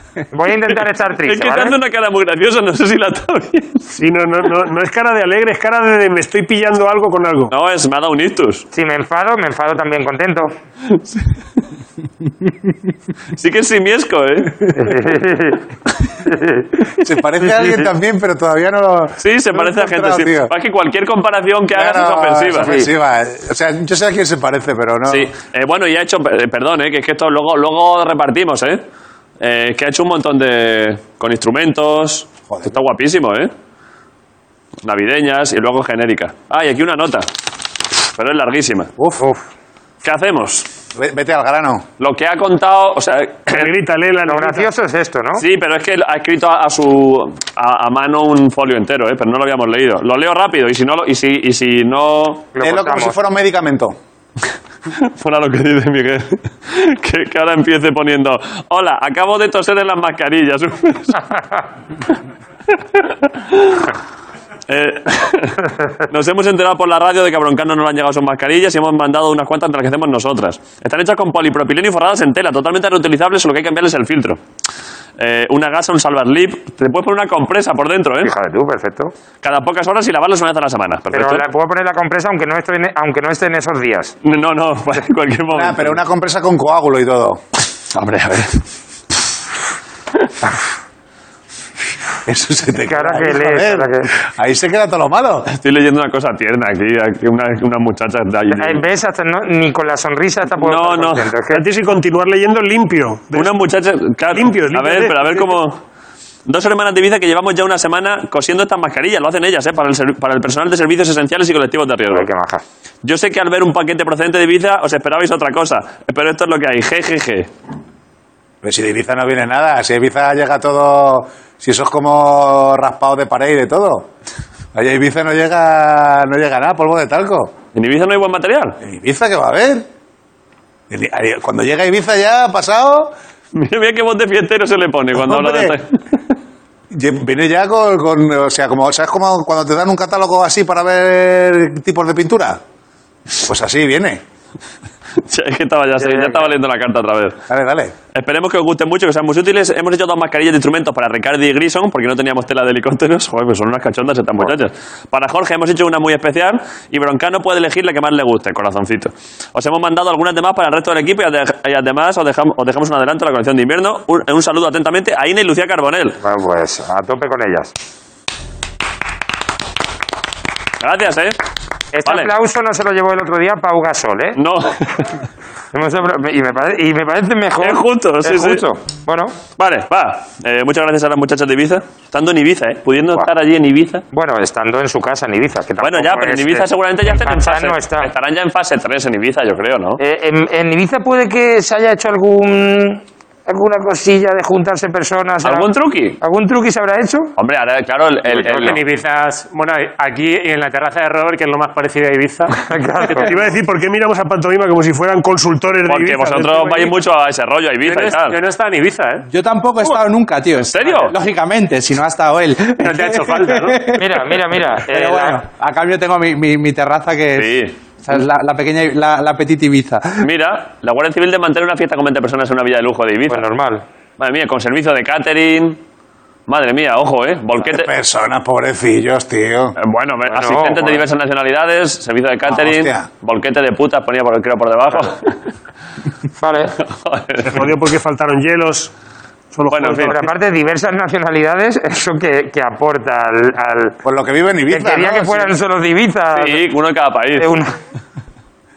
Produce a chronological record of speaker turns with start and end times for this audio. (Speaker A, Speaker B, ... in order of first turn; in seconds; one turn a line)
Speaker A: 0.3-1.8
Speaker B: 1.3-3.8
Speaker C: 3.9-7.5
Speaker B: 7.5-8.7
Speaker A: 8.7-10.5
Speaker B: 13.4-14.7
Speaker A: 14.7-15.6
Speaker A: 16.2-17.9
Speaker D: 17.0-20.5
Speaker B: 19.2-22.7
Speaker D: 21.7-25.3
Speaker A: 22.6-22.9
Speaker B: 25.1-28.8
Speaker B: 29.4-33.5
Speaker D: 32.5-32.7
Speaker B: 34.8-37.3
Speaker B: 38.2-38.9
Speaker A: 39.2-39.4
Speaker B: 40.0-40.7
Speaker D: 41.0-41.9
Speaker B: 42.0-43.7
Speaker C: 43.5-44.7
Speaker A: 44.3-45.5
Speaker B: 45.4-52.5
Speaker A: 52.5-53.1
Speaker D: 52.6-54.0
Speaker B: 55.0-61.2
Speaker B: 63.4-63.9
Speaker B: 64.7-74.4
Speaker B: 75.2-78.3
Speaker A: 78.2-79.1
Speaker B: 79.4-81.4
Speaker A: 81.1-84.2
Speaker B: 84.2-86.0
Speaker D: 85.5-87.4
Speaker B: 87.9-88.6
Speaker D: 92.3-95.5
Speaker A: 92.8-94.1
Speaker B: 95.5-98.8
Speaker A: 98.5-101.6
Speaker B: 100.6-101.3
Speaker C: 101.5-103.5
Speaker B: 103.3-105.8
Speaker C: 104.3-105.6
Speaker B: 106.5-112.3
Speaker A: 112.1-112.6
Speaker B: 113.0-117.5
Speaker D: 118.6-124.1
Speaker D: 124.7-127.5
Speaker B: 127.8-128.8
Speaker D: 128.8-129.9
Speaker D: 130.9-133.1
Speaker B: 133.6-135.9
Speaker D: 135.1-135.8
Speaker D: 136.9-142.6
Speaker D: 143.4-144.2
Speaker B: 145.3-147.4
Speaker A: 146.0-146.5
Speaker D: 147.5-147.9
Speaker B: 148.1-166.2
Speaker A: 166.2-167.7
Speaker B: 170.8-171.4
Speaker A: 172.0-174.4
Speaker B: 172.1-172.3
Speaker B: 174.4-175.1
Speaker A: 175.7-179.3
Speaker B: 177.6-178.7
Speaker B: 179.6-184.1
Speaker A: 184.1-188.1
Speaker B: 185.8-190.0
Speaker A: 190.0-197.3
Speaker B: 195.4-196.2
Speaker B: 197.4-198.8
Speaker E: 198.3-202.5
Speaker A: 198.4-198.8
Speaker A: 202.7-203.4
Speaker C: 203.2-206.9
Speaker B: 205.9-208.4
Speaker E: 207.8-209.3
Speaker F: 209.3-220.3
Speaker B: 210.7-211.1
Speaker E: 212.8-214.0
Speaker A: 214.0-215.4
Speaker B: 217.4-217.8
Speaker B: 220.2-223.4
Speaker A: 223.3-223.8
Speaker B: 224.2-225.8
Speaker B: 226.5-227.9
Speaker D: 227.6-229.8
Speaker B: 229.8-235.3
Speaker A: 230.3-231.1
Speaker D: 232.5-233.1
Speaker A: 236.4-236.8
Speaker B: 236.8-237.6
Speaker C: 237.5-238.9
Speaker C: 239.5-240.3
Speaker B: 239.7-240.2
Speaker A: 240.1-244.0
Speaker D: 244.0-245.5
Speaker A: 244.7-246.7
Speaker B: 246.3-247.5
Speaker A: 247.4-247.7